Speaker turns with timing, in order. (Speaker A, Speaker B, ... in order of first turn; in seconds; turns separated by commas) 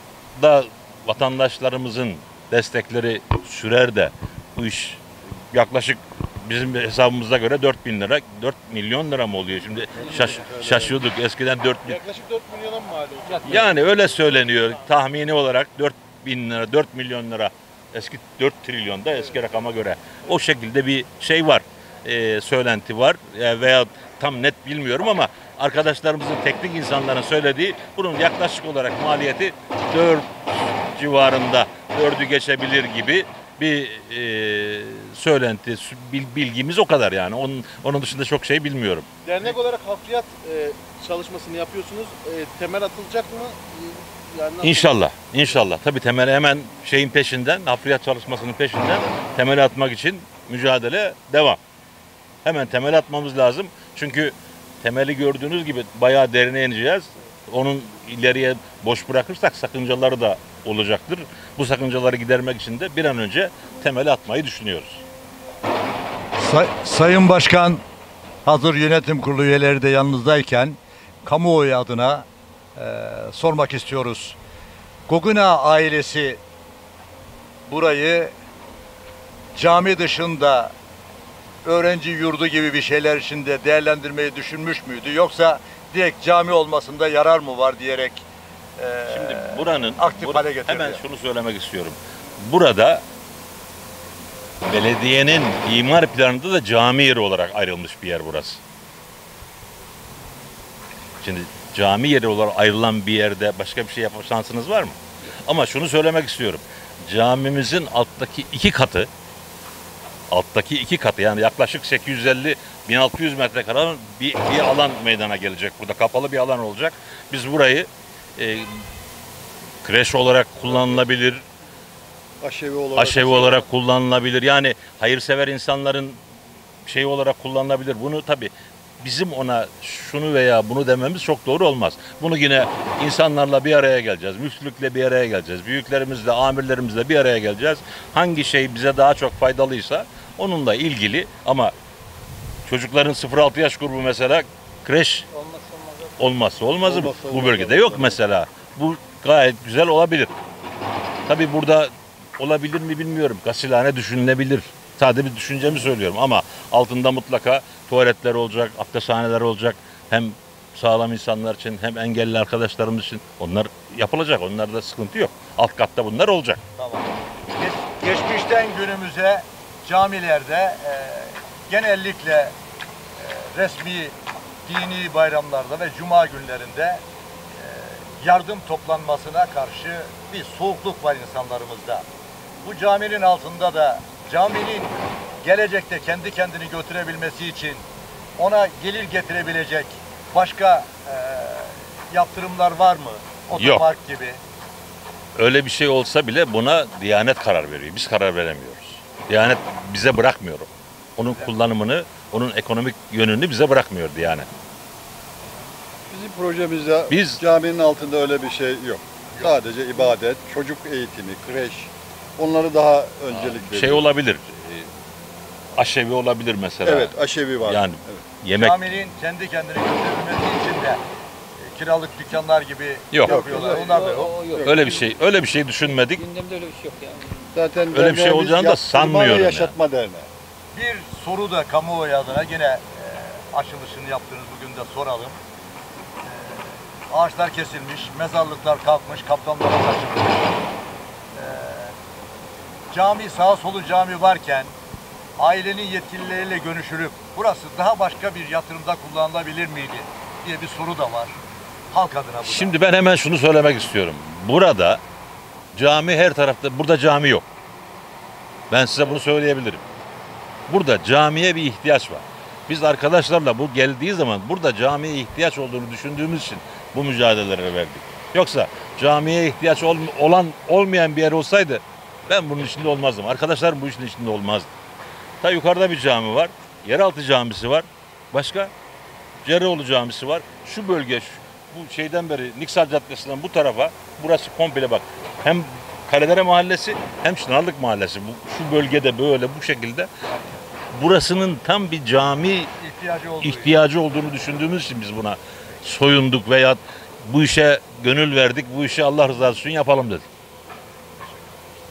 Speaker A: 0.3-12.0, Speaker B: 9.9-11.0, Speaker C: 11.9-13.8, Speaker A: 13.4-39.1, Speaker C: 39.3-45.0, Speaker A: 44.6-51.6, Speaker A: 52.4-65.0, Speaker D: 66.4-67.8, Speaker D: 68.5-74.4, Speaker D: 75.1-76.4, Speaker D: 77.7-78.3, Speaker D: 79.5-80.7, Speaker D: 81.7-88.2, Speaker D: 88.8-91.0, Speaker A: 89.1-93.0, Speaker A: 94.6-98.6, Speaker A: 101.2-109.1, Speaker A: 110.3-118.8, Speaker A: 119.8-121.5, Speaker B: 122.4-123.7, Speaker A: 123.0-126.2, Speaker A: 126.9-141.7, Speaker A: 142.7-145.3, Speaker E: 145.3-146.1, Speaker A: 146.2-150.3, Speaker B: 146.8-148.2, Speaker A: 151.3-166.6, Speaker D: 166.8-172.5, Speaker D: 173.2-177.0, Speaker D: 177.6-182.0, Speaker D: 182.6-187.8, Speaker D: 188.4-194.4, Speaker A: 193.6-193.9, Speaker A: 195.4-204.5, Speaker D: 201.2-201.5, Speaker B: 206.1-214.1, Speaker A: 207.1-207.4, Speaker A: 213.3-214.9, Speaker A: 215.8-218.8, Speaker B: 216.8-218.2, Speaker D: 218.5-221.0, Speaker D: 221.6-224.5, Speaker A: 223.1-223.6, Speaker B: 223.2-224.9, Speaker E: 223.9-225.1, Speaker A: 224.6-226.3, Speaker E: 226.2-227.4, Speaker B: 227.5-230.3, Speaker A: 227.9-229.8, Speaker D: 230.7-235.4, Speaker D: 236.2-240.6, Speaker D: 241.3-241.9, Speaker D: 242.9-244.7, Speaker D: 245.4-251.4, Speaker D: 251.9-252.8, Speaker A: 252.4-255.0, Speaker A: 255.7-257.5, Speaker A: 258.7-259.8, Speaker A: 260.7-274.7, Speaker A: 275.4-278.7, Speaker A: 279.4-290.1, Speaker A: 290.9-292.7, Speaker D: 292.8-293.8, Speaker A: 293.4-300.3